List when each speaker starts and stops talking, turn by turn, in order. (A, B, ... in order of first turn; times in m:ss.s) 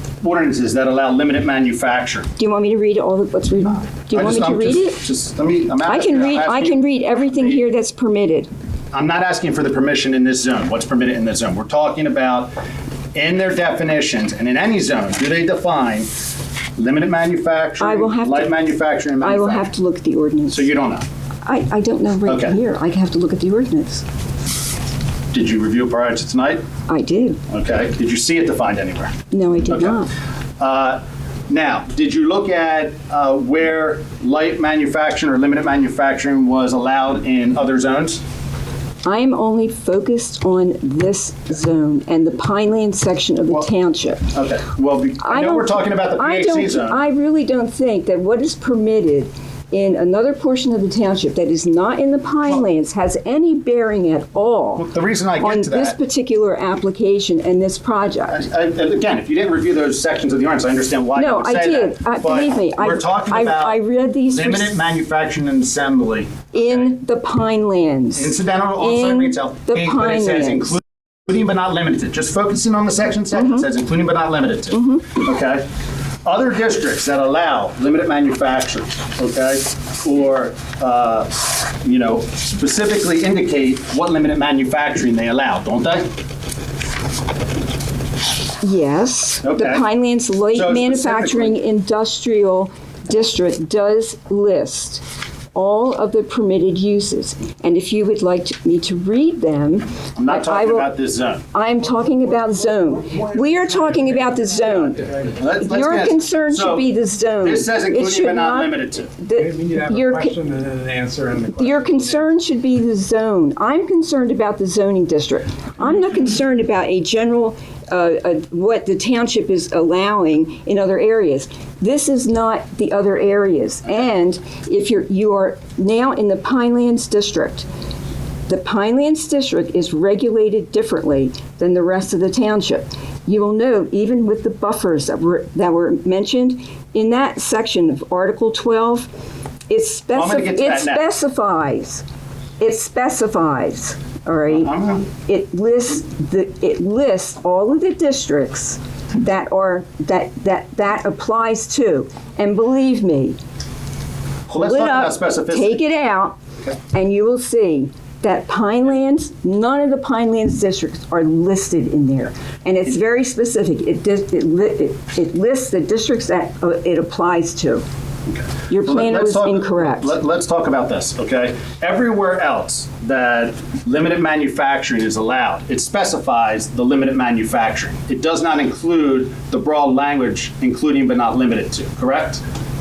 0:00.2-0:02.3 A
0:02.4-0:05.0 B
0:04.1-0:07.6 A
0:05.8-0:08.5 B
0:08.9-0:12.5 A
0:13.1-0:16.1 A
0:16.8-0:19.7 A
0:17.8-0:18.6 B
0:19.2-0:20.7 B
0:20.5-0:21.0 A
0:21.4-0:24.0 B
0:22.2-0:22.6 A
0:25.3-0:26.6 A
0:26.9-0:27.4 B
0:27.5-0:29.1 A
0:29.3-0:30.1 B
0:29.7-0:30.0 A
0:30.6-0:38.2 A
0:39.0-0:44.2 B
0:44.3-0:47.0 A
0:45.2-0:58.4 B
0:54.8-0:56.0 A
0:58.3-1:06.9 A
1:01.2-1:04.8 B
1:06.5-1:10.8 B
1:08.2-1:15.6 A
1:13.3-1:13.6 B
1:14.7-1:15.1 B
1:16.2-1:26.1 A
1:28.6-1:40.9 B
1:29.4-1:29.8 A
1:30.5-1:31.6 A
1:40.2-1:41.4 A
1:41.5-1:50.4 B
1:45.3-1:46.8 A
1:47.4-1:49.1 A
1:49.4-1:52.0 C
1:51.6-2:07.7 B
2:08.5-2:19.1 B
2:19.7-2:22.0 B
2:20.1-2:21.1 A
2:22.6-2:33.4 B
2:24.5-2:25.1 A
2:34.5-2:35.8 A
2:34.5-2:36.4 B
2:36.9-2:47.8 B
2:48.3-3:02.4 A
2:48.7-2:50.2 B